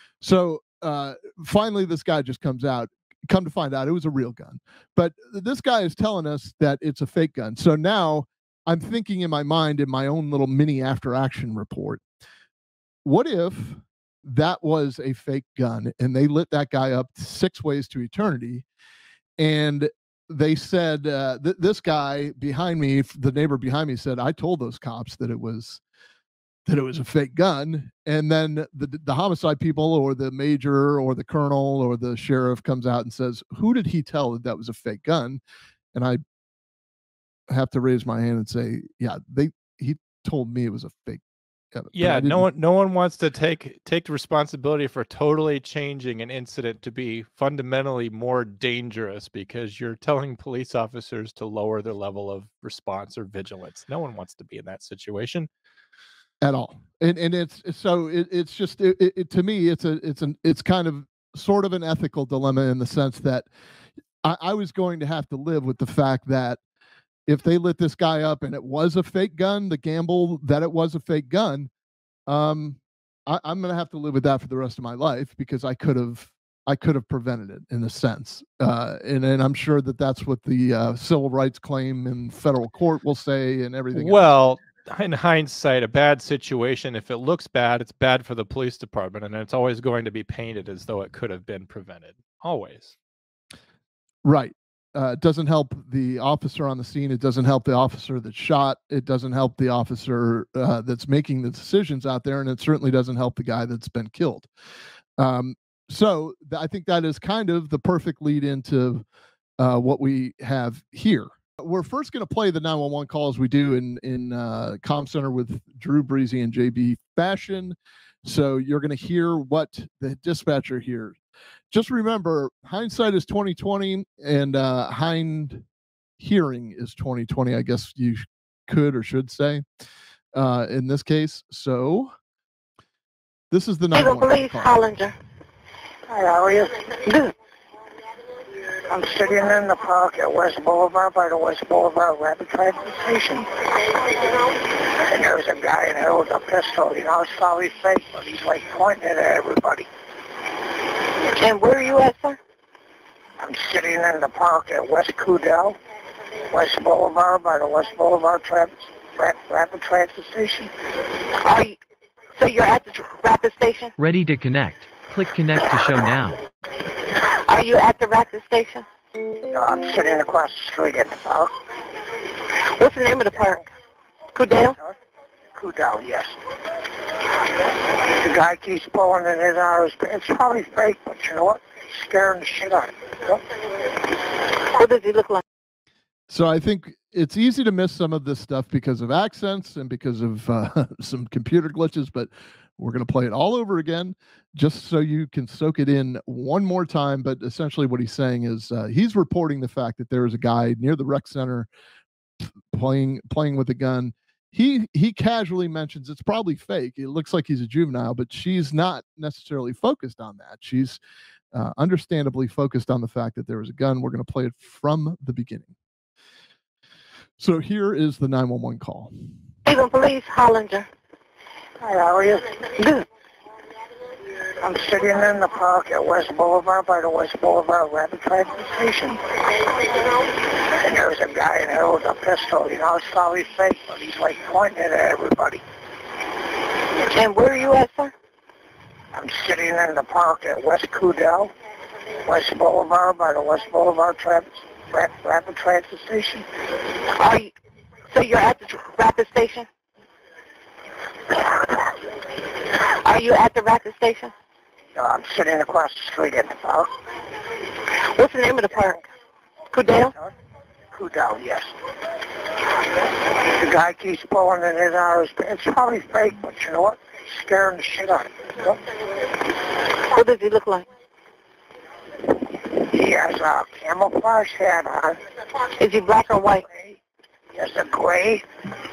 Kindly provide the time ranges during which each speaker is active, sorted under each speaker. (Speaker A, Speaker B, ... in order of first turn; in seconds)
Speaker A: 0.2-12.0, 13.0-18.6, 19.4-25.8, 26.7-35.4, 35.9-36.2, 37.5-41.2, 41.7-42.5, 56.4-63.5, 64.2-66.6, 67.3-71.7, 72.3-84.2, 94.2-104.5, 105.2-109.0, 109.6-121.2, 121.7-125.6, 126.2-129.6, 130.3-132.1, 133.5-134.9, 186.3-201.7, 202.7-211.0, 211.5-215.7, 217.4-219.1
Speaker B: 41.9-55.5, 83.9-92.9
Speaker C: 133.9-135.1, 137.1-137.3, 151.4-152.4, 161.4-161.8, 162.4-163.9, 167.5-168.8, 172.7-173.7, 174.3-174.8, 184.7-185.4, 219.7-220.9, 222.8-223.1, 237.1-238.1, 247.1-247.5, 248.1-249.7, 253.0-254.3, 258.0-259.0, 259.7-260.1, 270.1-270.9, 275.8-276.6
Speaker D: 136.1-136.8, 138.9-143.5, 144.5-149.9, 153.4-155.8, 156.5-160.7, 169.5-171.5, 175.5-176.3, 178.1-183.4, 221.8-222.5, 224.6-229.5, 230.8-235.6, 239.1-241.5, 242.2-246.5, 254.9-256.9, 260.9-261.7, 263.5-268.8, 272.3-275.2, 276.7-277.0, 277.5-278.4
Speaker E: 164.0-166.4